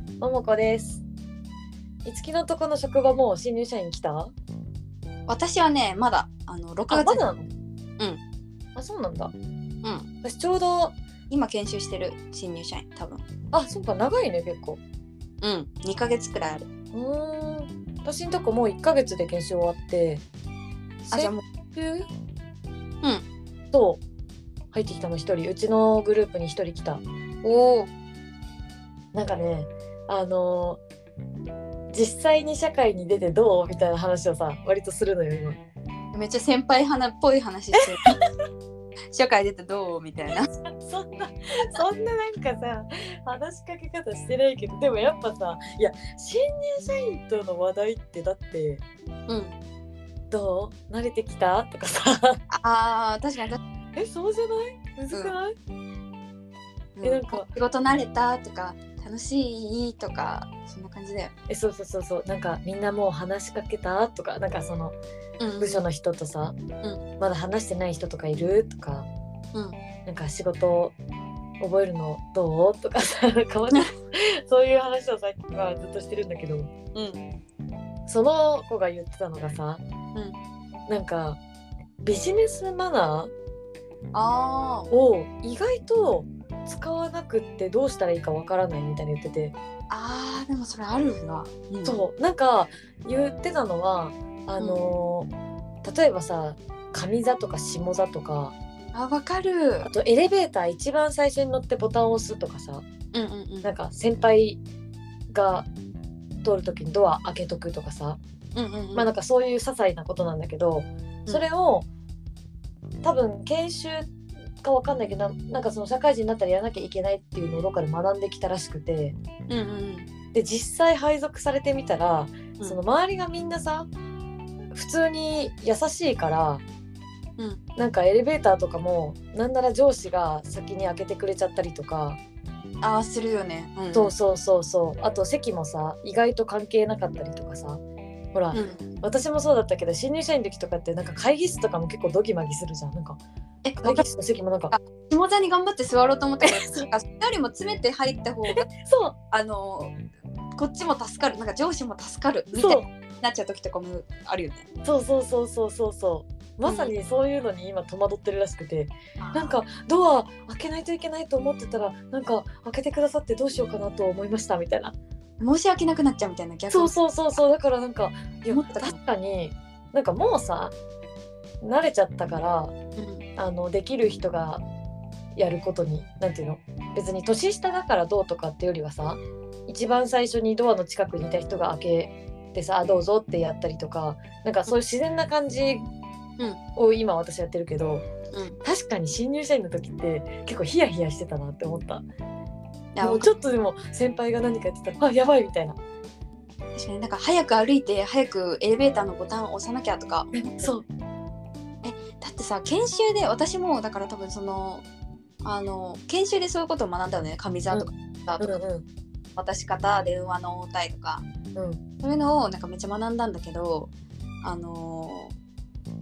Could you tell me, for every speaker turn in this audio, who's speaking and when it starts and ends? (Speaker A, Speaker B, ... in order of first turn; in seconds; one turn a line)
Speaker A: 0.2-1.0
Speaker A: 2.0-4.3
Speaker B: 5.3-7.2
Speaker A: 6.9-7.5
Speaker A: 8.8-9.3
Speaker B: 9.8-10.1
Speaker A: 10.2-10.9
Speaker B: 11.3-13.2
Speaker A: 13.5-14.8
Speaker B: 15.4-16.7
Speaker A: 16.9-20.2
Speaker A: 21.1-22.1
Speaker B: 21.1-21.4
Speaker A: 23.7-24.0
Speaker A: 24.7-27.0
Speaker B: 27.4-27.9
Speaker A: 29.1-30.8
Speaker A: 31.9-35.6
Speaker B: 36.1-38.1
Speaker B: 39.1-40.5
Speaker A: 40.6-48.8
Speaker B: 49.3-49.5
Speaker A: 50.3-52.4
Speaker B: 52.5-53.6
Speaker A: 54.0-55.5
Speaker B: 56.9-61.3
Speaker A: 57.0-57.5
Speaker A: 61.5-65.0
Speaker B: 65.4-65.8
Speaker A: 65.6-66.5
Speaker A: 67.2-69.1
Speaker B: 69.5-69.8
Speaker A: 70.0-71.0
Speaker A: 71.6-76.7
Speaker B: 76.9-77.3
Speaker A: 78.1-79.8
Speaker A: 80.9-81.4
Speaker A: 82.0-83.3
Speaker B: 84.1-84.9
Speaker A: 84.9-89.5
Speaker B: 89.9-92.0
Speaker A: 91.8-95.3
Speaker B: 94.6-94.8
Speaker A: 95.8-98.5
Speaker B: 98.9-99.9
Speaker A: 99.8-102.8
Speaker B: 103.1-103.7
Speaker A: 103.6-104.6
Speaker A: 105.3-105.7
Speaker A: 106.4-108.2
Speaker B: 108.5-109.1
Speaker A: 108.9-111.9
Speaker A: 113.0-119.2
Speaker B: 119.5-120.1
Speaker A: 120.3-123.9
Speaker A: 124.7-126.6
Speaker A: 127.8-132.2
Speaker B: 132.8-134.1
Speaker A: 133.9-137.8
Speaker A: 138.3-143.2
Speaker B: 138.5-138.8
Speaker B: 143.6-144.1
Speaker A: 143.8-144.8
Speaker B: 144.7-148.7
Speaker A: 146.4-146.9
Speaker A: 148.5-149.1
Speaker B: 149.3-150.0
Speaker B: 150.6-154.6
Speaker A: 152.5-152.9
Speaker A: 154.8-164.9
Speaker B: 156.6-156.9
Speaker B: 159.2-159.5
Speaker B: 165.4-166.9
Speaker A: 166.7-170.7
Speaker B: 168.5-168.9
Speaker A: 171.6-172.7
Speaker B: 172.9-173.2
Speaker A: 173.4-174.6
Speaker A: 175.3-185.9
Speaker A: 186.8-188.1
Speaker B: 188.3-188.6
Speaker A: 188.6-192.0
Speaker B: 192.9-193.3
Speaker A: 193.0-195.8
Speaker B: 196.7-200.7
Speaker A: 200.3-200.8
Speaker B: 201.8-204.8
Speaker B: 205.4-208.6
Speaker A: 207.7-208.8
Speaker B: 209.3-211.2
Speaker A: 211.5-211.8
Speaker B: 212.0-213.9
Speaker B: 214.4-215.3